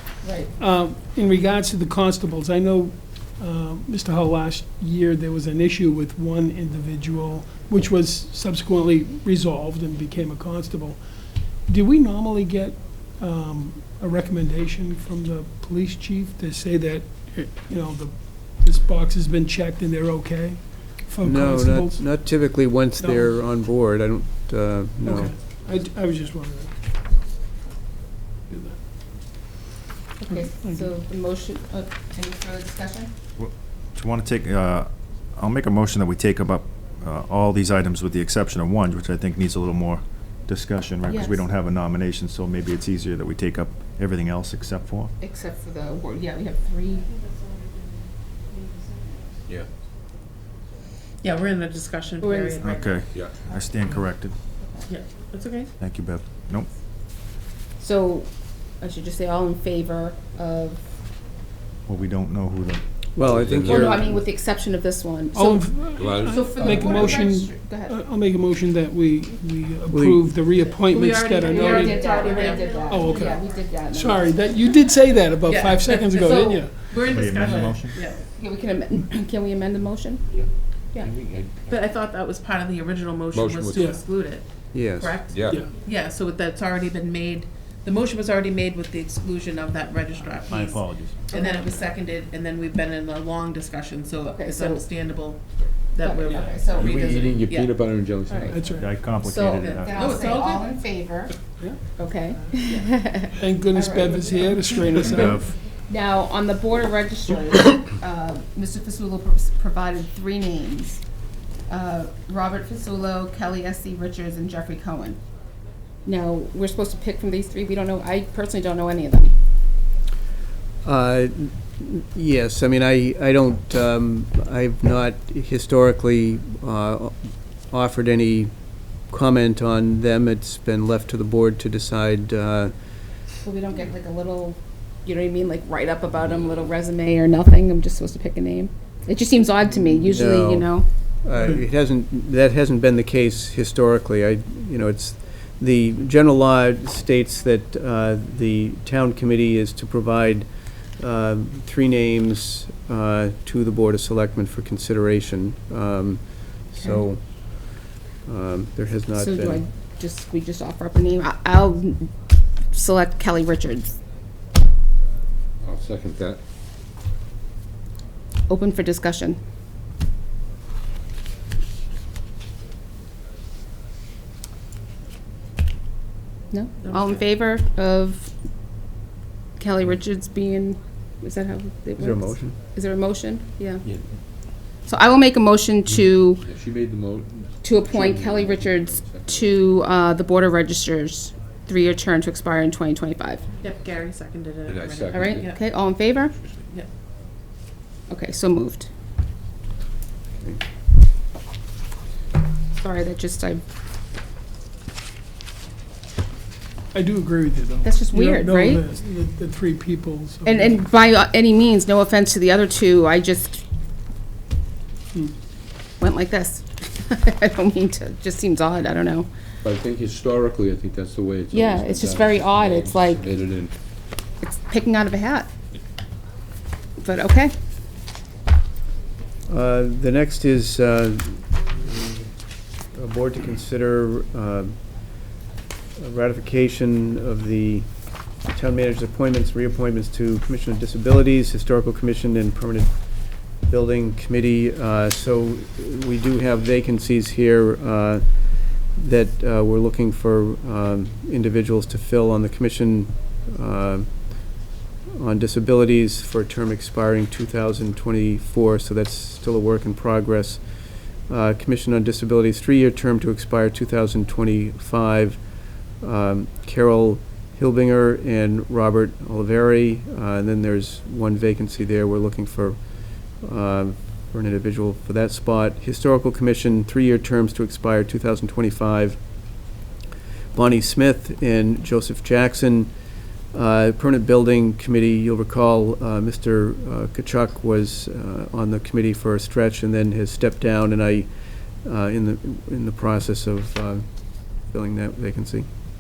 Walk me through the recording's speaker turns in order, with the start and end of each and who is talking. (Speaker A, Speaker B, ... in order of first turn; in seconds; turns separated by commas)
Speaker A: 0.2-0.5, Speaker B: 0.6-11.1, Speaker B: 11.7-22.3, Speaker C: 21.2-25.3, Speaker B: 23.0-23.3, Speaker B: 25.0-26.8, Speaker B: 28.5-28.8, Speaker A: 30.2-33.1, Speaker B: 30.3-30.9, Speaker D: 33.4-45.1, Speaker A: 41.1-41.4, Speaker A: 45.2-47.0, Speaker E: 51.2-53.1, Speaker A: 52.2-52.6, Speaker D: 52.6-54.4, Speaker F: 53.1-53.4, Speaker A: 54.6-54.9, Speaker E: 54.9-55.7, Speaker D: 55.8-56.7, Speaker A: 57.8-58.3, Speaker A: 58.8-60.9, Speaker D: 61.9-62.8, Speaker C: 63.2-64.2, Speaker F: 63.3-64.1, Speaker A: 63.7-68.0, Speaker B: 65.3-72.2, Speaker F: 66.0-67.1, Speaker C: 69.9-70.3, Speaker E: 70.8-73.3, Speaker A: 71.5-74.4, Speaker B: 72.9-76.8, Speaker E: 75.5-78.2, Speaker A: 76.2-76.7, Speaker D: 77.0-78.0, Speaker A: 78.0-80.3, Speaker F: 80.3-81.8, Speaker E: 81.7-97.8, Speaker F: 83.3-84.0, Speaker B: 83.7-84.0, Speaker C: 84.7-85.3, Speaker F: 85.3-85.7, Speaker D: 90.5-91.3, Speaker A: 91.3-91.8, Speaker A: 94.2-94.9, Speaker A: 96.0-97.3, Speaker F: 96.4-98.7, Speaker B: 98.5-98.9, Speaker D: 98.6-100.2, Speaker A: 99.2-105.3, Speaker E: 99.3-100.8, Speaker B: 103.3-105.5, Speaker D: 105.1-105.6, Speaker A: 105.8-111.0, Speaker A: 111.7-115.2, Speaker A: 116.0-119.3, Speaker C: 120.8-132.7, Speaker A: 133.4-140.9, Speaker C: 139.8-159.6, Speaker B: 141.3-141.6, Speaker A: 159.1-162.1, Speaker A: 162.7-163.9, Speaker F: 165.6-166.4, Speaker A: 168.5-169.4, Speaker A: 176.5-178.3, Speaker E: 176.8-177.3, Speaker A: 179.6-183.8, Speaker C: 182.0-182.6, Speaker F: 183.8-184.1, Speaker A: 184.9-186.4, Speaker F: 186.4-189.6, Speaker A: 187.6-193.5, Speaker E: 193.6-195.6, Speaker F: 194.7-195.5, Speaker A: 195.1-196.4, Speaker F: 196.4-196.7, Speaker A: 198.1-198.9, Speaker A: 202.8-203.6, Speaker B: 206.9-210.9, Speaker A: 207.8-208.8, Speaker A: 210.4-213.6, Speaker A: 216.0-219.3, Speaker F: 219.6-223.7, Speaker A: 221.5-223.2, Speaker A: 224.4-225.5, Speaker A: 227.0-227.5, Speaker C: 229.5-232.3, Speaker C: 232.9-235.1, Speaker C: 236.0-237.9, Speaker C: 238.4-254.6, Speaker C: 255.2-279.2, Speaker C: 280.5-282.9, Speaker C: 283.5-291.3, Speaker C: 291.8-295.7